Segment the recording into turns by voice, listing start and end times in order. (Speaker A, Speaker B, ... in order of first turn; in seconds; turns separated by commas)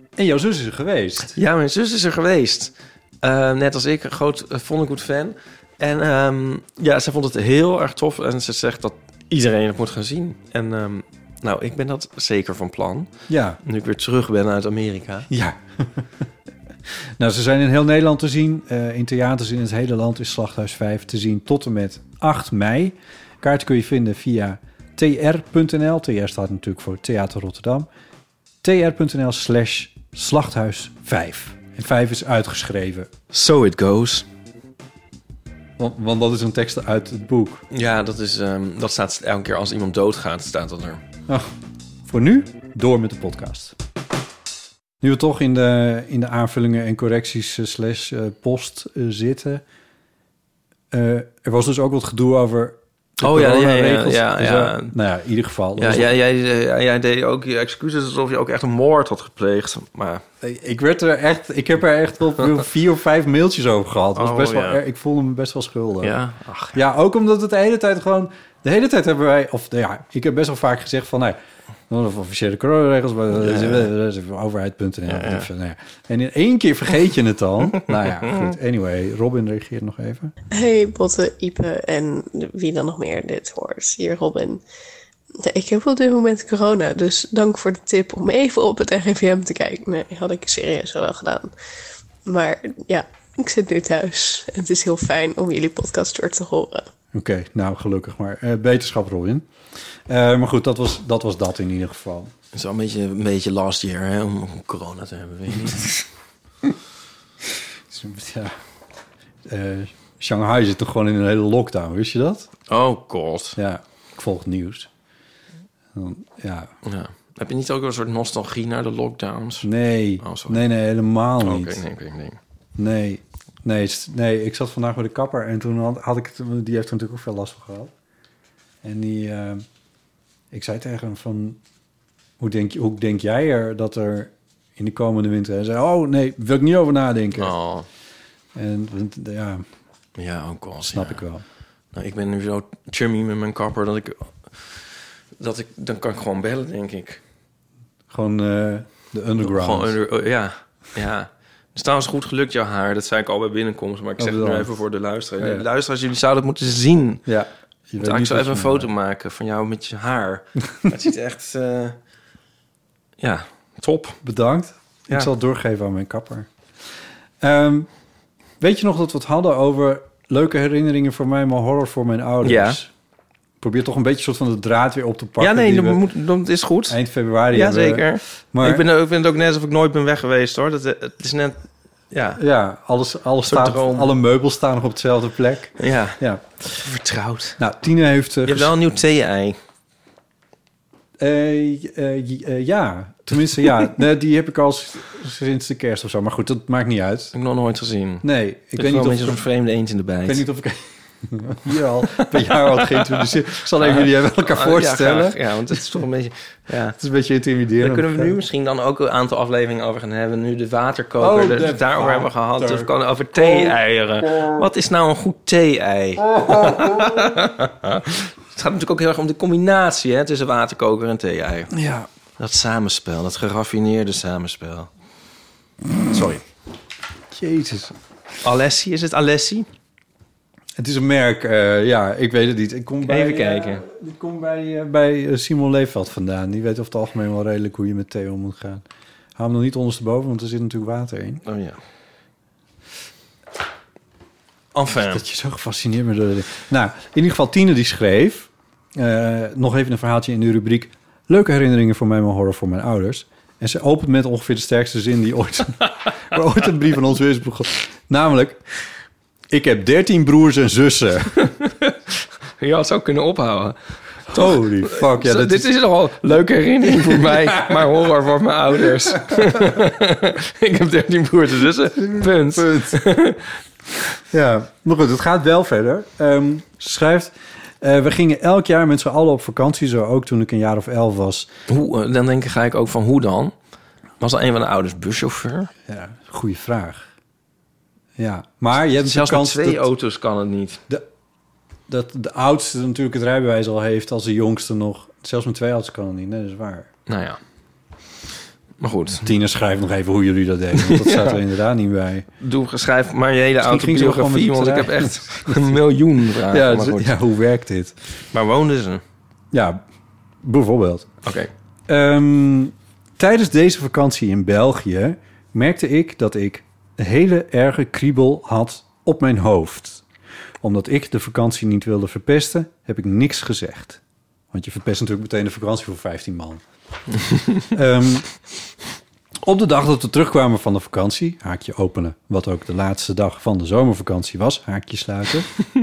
Speaker A: 0.1-1.3, Speaker B: 1.3-13.1, Speaker A: 13.3-13.6, Speaker B: 13.6-15.3, Speaker A: 15.3-16.1, Speaker A: 17.2-27.9, Speaker A: 28.6-33.1, Speaker B: 33.3-34.2, Speaker A: 35.8-37.6, Speaker B: 37.7-41.0, Speaker A: 42.1-43.7, Speaker A: 45.0-49.6, Speaker A: 50.9-56.1, Speaker B: 53.2-54.9, Speaker B: 55.8-60.2, Speaker A: 60.4-66.2, Speaker B: 64.2-64.8, Speaker B: 66.0-66.8, Speaker A: 66.7-71.4, Speaker A: 71.9-80.3, Speaker B: 73.3-73.9, Speaker B: 75.1-75.5, Speaker C: 80.5-84.6, Speaker C: 85.4-91.5, Speaker C: 92.2-96.9, Speaker A: 97.1-99.5, Speaker A: 100.1-102.3, Speaker B: 102.5-106.0, Speaker A: 107.9-108.5, Speaker A: 109.4-112.5, Speaker B: 112.7-113.6, Speaker A: 113.6-114.9, Speaker A: 115.9-116.7, Speaker B: 116.8-119.7, Speaker A: 119.6-121.8, Speaker B: 120.2-120.6, Speaker B: 121.4-122.4, Speaker A: 122.8-127.9, Speaker A: 128.8-129.7, Speaker A: 130.5-131.6, Speaker A: 132.4-137.5, Speaker B: 137.4-137.8, Speaker A: 138.5-139.6, Speaker B: 140.2-141.2, Speaker A: 140.9-141.4, Speaker B: 141.9-147.2, Speaker A: 148.1-150.0, Speaker B: 149.4-157.2, Speaker A: 154.2-154.8, Speaker A: 155.4-155.7, Speaker A: 157.2-158.9, Speaker B: 158.0-161.9, Speaker B: 163.2-164.2, Speaker A: 164.2-166.5, Speaker A: 167.4-167.9, Speaker A: 168.6-172.9, Speaker B: 172.4-172.8, Speaker A: 173.6-176.0, Speaker B: 175.4-177.0, Speaker A: 176.9-178.8, Speaker B: 177.5-182.4, Speaker A: 182.4-186.4, Speaker B: 183.4-184.1, Speaker B: 185.8-187.6, Speaker A: 187.6-188.8, Speaker B: 188.4-189.6, Speaker A: 191.2-197.3, Speaker B: 197.3-200.4, Speaker A: 198.2-199.4, Speaker A: 200.2-206.0, Speaker B: 202.1-203.3, Speaker B: 203.8-207.0, Speaker A: 206.9-208.4, Speaker B: 207.8-221.7, Speaker A: 211.2-214.7, Speaker A: 216.2-217.3, Speaker A: 221.7-222.1, Speaker B: 222.4-224.9, Speaker B: 226.1-226.4, Speaker A: 227.3-227.9, Speaker B: 228.4-229.7, Speaker A: 230.8-238.8, Speaker B: 233.1-233.8, Speaker A: 239.3-241.4, Speaker B: 241.4-241.8, Speaker B: 244.7-245.2, Speaker A: 245.0-258.6, Speaker A: 259.5-261.4, Speaker B: 261.4-273.6, Speaker A: 264.3-265.7, Speaker A: 266.8-267.9, Speaker A: 272.0-273.0, Speaker A: 274.3-281.5, Speaker B: 281.7-283.5, Speaker B: 284.2-285.7, Speaker A: 285.9-287.1, Speaker A: 288.2-289.9, Speaker B: 289.0-290.8, Speaker A: 291.9-296.9, Speaker B: 297.1-297.4, Speaker B: 298.8-299.2, Speaker A: 299.2-302.3, Speaker B: 300.8-301.4, Speaker B: 302.4-307.1, Speaker A: 303.6-305.8, Speaker A: 306.5-307.9, Speaker B: 308.3-309.0, Speaker A: 309.5-309.8, Speaker A: 310.4-311.1, Speaker B: 311.2-311.5, Speaker A: 311.9-320.0, Speaker A: 320.6-324.0, Speaker A: 324.5-326.6, Speaker B: 327.3-327.6, Speaker A: 327.7-328.3, Speaker A: 329.4-335.5